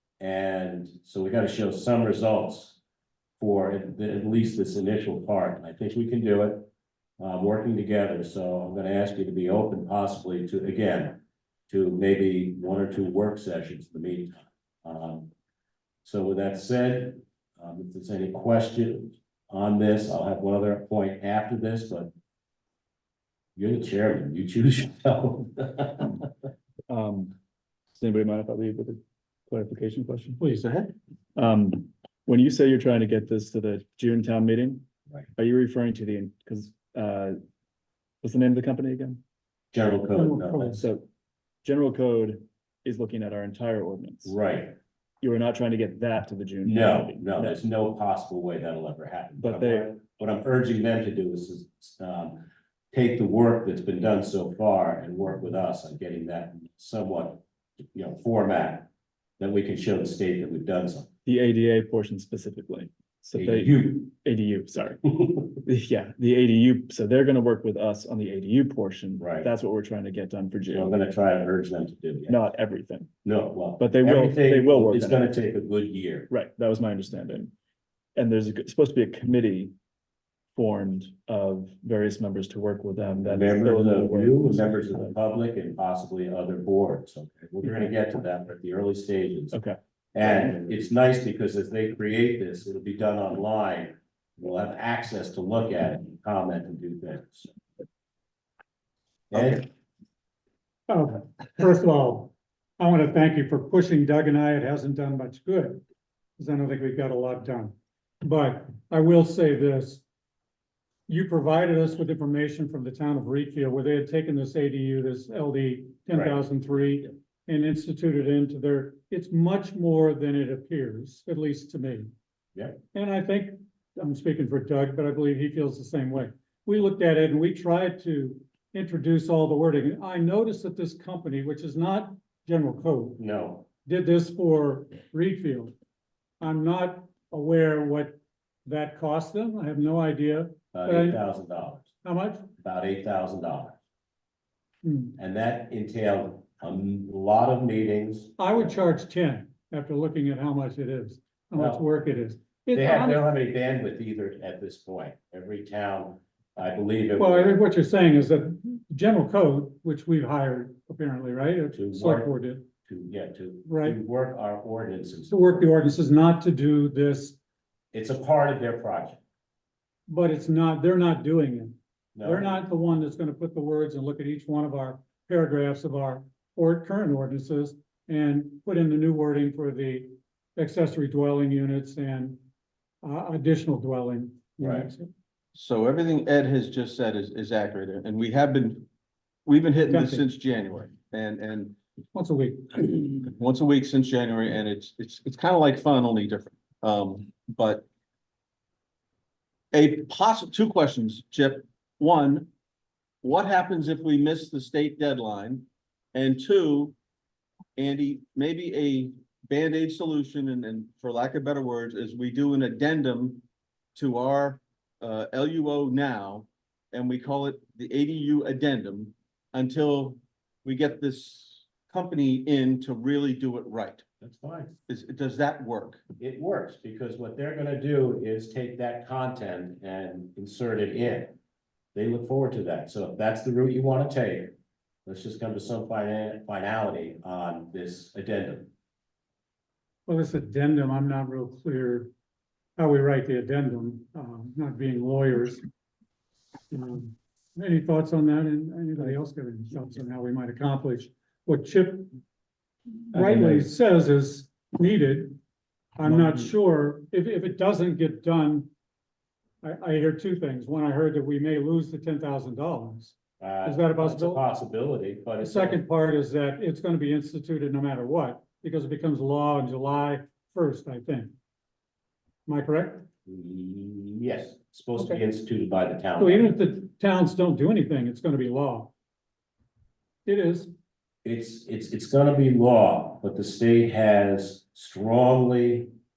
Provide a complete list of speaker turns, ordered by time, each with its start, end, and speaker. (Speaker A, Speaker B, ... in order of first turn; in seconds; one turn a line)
Speaker A: 0.2-2.8
Speaker A: 3.4-15.3
Speaker A: 16.0-22.1
Speaker A: 23.6-26.2
Speaker B: 26.9-27.3
Speaker B: 27.9-30.4
Speaker C: 30.4-30.9
Speaker B: 31.3-37.4
Speaker B: 38.2-39.2
Speaker A: 39.7-40.8
Speaker D: 40.1-40.8
Speaker B: 40.8-41.1
Speaker B: 41.6-44.4
Speaker A: 44.2-44.8
Speaker B: 45.2-47.6
Speaker A: 46.6-57.4
Speaker B: 49.4-49.9
Speaker A: 57.9-61.1
Speaker B: 61.2-65.0
Speaker A: 63.3-64.1
Speaker B: 65.6-70.9
Speaker A: 69.2-69.5
Speaker A: 70.7-72.4
Speaker B: 72.3-73.1
Speaker A: 73.2-76.3
Speaker B: 73.8-75.2
Speaker B: 76.3-77.5
Speaker B: 78.2-79.7
Speaker B: 80.5-85.2
Speaker A: 83.2-89.5
Speaker B: 89.5-90.3
Speaker A: 90.1-97.5
Speaker A: 99.3-99.7
Speaker D: 100.9-105.8
Speaker D: 106.4-110.0
Speaker D: 111.1-122.1
Speaker A: 116.1-116.4
Speaker D: 122.9-133.2
Speaker A: 133.2-133.7
Speaker D: 133.8-135.7
Speaker D: 136.4-141.2
Speaker A: 140.7-141.9
Speaker D: 142.0-142.5
Speaker A: 142.6-143.8
Speaker D: 144.8-145.1
Speaker A: 145.2-148.7
Speaker D: 148.4-153.3
Speaker A: 151.6-151.8
Speaker A: 152.7-157.6
Speaker D: 157.2-162.7
Speaker A: 161.7-162.3
Speaker A: 162.8-165.7
Speaker D: 163.7-164.0
Speaker D: 165.3-167.4
Speaker A: 167.9-169.2
Speaker D: 170.1-182.4
Speaker A: 172.1-172.6
Speaker D: 183.0-185.1
Speaker A: 184.6-184.9
Speaker C: 185.5-188.9
Speaker C: 189.4-191.8
Speaker D: 189.8-190.3
Speaker D: 192.1-192.7
Speaker C: 192.8-197.9
Speaker C: 199.7-202.5
Speaker C: 203.2-206.9
Speaker C: 207.8-213.4
Speaker C: 213.9-224.0
Speaker A: 224.2-224.8
Speaker C: 224.9-226.0
Speaker A: 226.2-231.3
Speaker A: 231.9-234.5
Speaker A: 235.1-238.7
Speaker D: 240.1-242.1
Speaker D: 242.8-245.6
Speaker D: 246.7-252.1
Speaker D: 253.1-255.4
Speaker B: 253.1-253.6
Speaker D: 256.0-258.7
Speaker B: 256.1-256.4
Speaker D: 259.6-264.4
Speaker A: 263.4-265.8
Speaker D: 265.4-271.3
Speaker D: 272.4-273.1
Speaker A: 273.2-276.6
Speaker D: 276.2-278.9
Speaker D: 280.2-280.7
Speaker A: 281.2-285.9